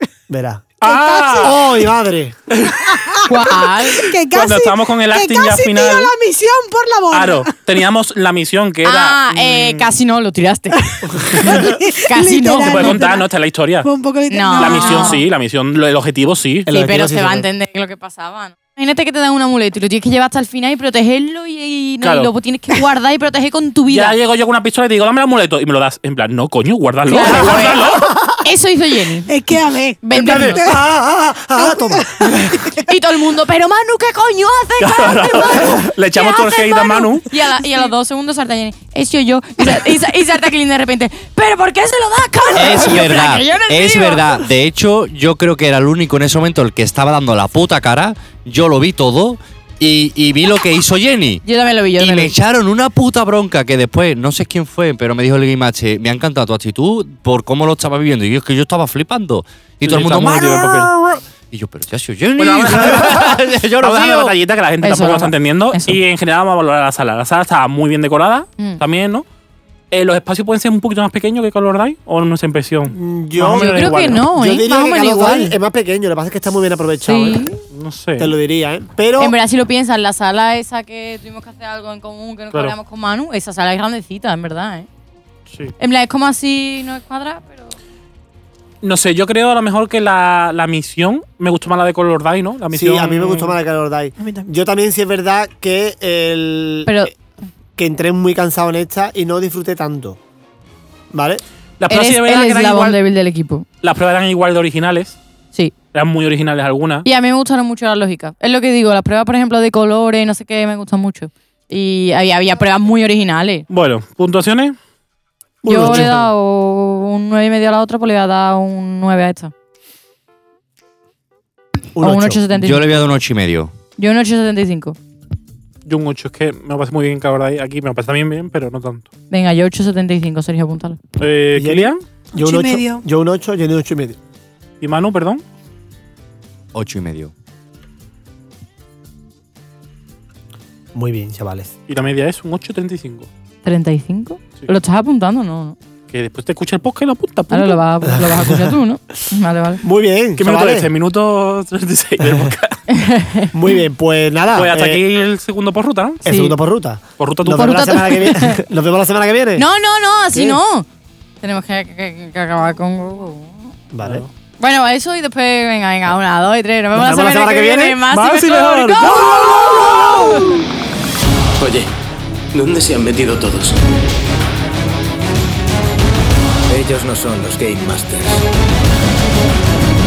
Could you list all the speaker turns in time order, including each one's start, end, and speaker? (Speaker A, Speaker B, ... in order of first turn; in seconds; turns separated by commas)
Speaker A: 0.3-0.7, Speaker B: 0.8-1.6, Speaker C: 0.8-1.7, Speaker A: 1.3-2.6, Speaker C: 2.8-7.6, Speaker D: 3.2-4.0, Speaker B: 4.3-6.1, Speaker B: 7.1-9.3, Speaker D: 8.8-13.0, Speaker A: 11.1-11.8, Speaker C: 11.3-13.3, Speaker B: 12.7-13.9, Speaker C: 13.8-15.2, Speaker D: 14.3-15.2, Speaker B: 14.6-16.7, Speaker A: 16.6-17.5, Speaker D: 16.7-24.2, Speaker B: 22.0-22.3, Speaker B: 23.9-28.2, Speaker D: 27.0-29.3, Speaker A: 27.4-28.1, Speaker C: 29.2-30.9, Speaker D: 30.0-30.6, Speaker A: 30.1-32.6, Speaker C: 31.5-32.8, Speaker D: 32.8-44.4, Speaker B: 34.8-37.3, Speaker E: 42.5-51.4, Speaker D: 51.4-52.3, Speaker E: 52.0-64.3, Speaker B: 59.8-60.9, Speaker B: 62.4-69.2, Speaker D: 64.8-66.0, Speaker B: 69.9-74.2, Speaker A: 72.9-77.5, Speaker D: 73.5-75.5, Speaker D: 77.0-77.6, Speaker B: 77.7-78.3, Speaker A: 78.2-79.3, Speaker D: 79.2-84.9, Speaker B: 85.5-85.7, Speaker D: 85.8-87.7, Speaker B: 88.8-93.5, Speaker A: 92.7-97.1, Speaker C: 94.2-94.5, Speaker D: 96.8-97.1, Speaker A: 97.8-100.2, Speaker A: 101.1-101.4, Speaker B: 101.8-103.0, Speaker D: 101.9-103.7, Speaker B: 103.8-105.2, Speaker B: 105.9-107.0, Speaker D: 107.0-113.7, Speaker B: 113.7-114.8, Speaker A: 115.6-116.1, Speaker D: 115.7-119.5, Speaker B: 115.8-116.2, Speaker A: 121.9-122.4, Speaker D: 122.0-123.1, Speaker E: 122.5-123.7, Speaker D: 124.0-125.0, Speaker B: 125.8-129.1, Speaker D: 129.3-131.0, Speaker B: 131.2-132.0, Speaker A: 131.5-134.2, Speaker C: 132.3-133.0, Speaker B: 134.8-135.4, Speaker E: 136.7-137.3, Speaker A: 140.9-141.7, Speaker B: 141.9-143.3, Speaker D: 143.6-145.8, Speaker B: 146.1-147.8, Speaker D: 147.5-149.8, Speaker A: 148.1-148.8, Speaker A: 149.8-150.9, Speaker B: 150.4-152.8, Speaker A: 152.2-152.5, Speaker D: 152.9-153.5, Speaker A: 153.5-155.0, Speaker B: 154.6-156.2, Speaker D: 156.2-156.5, Speaker A: 156.2-159.6, Speaker B: 157.2-158.0, Speaker D: 157.5-158.6, Speaker D: 159.6-160.8, Speaker D: 161.4-163.7, Speaker A: 163.9-164.2, Speaker B: 164.0-164.3, Speaker D: 164.6-170.6, Speaker A: 166.9-168.0, Speaker B: 168.1-170.5, Speaker F: 171.6-171.9, Speaker F: 172.5-173.8, Speaker F: 176.7-178.4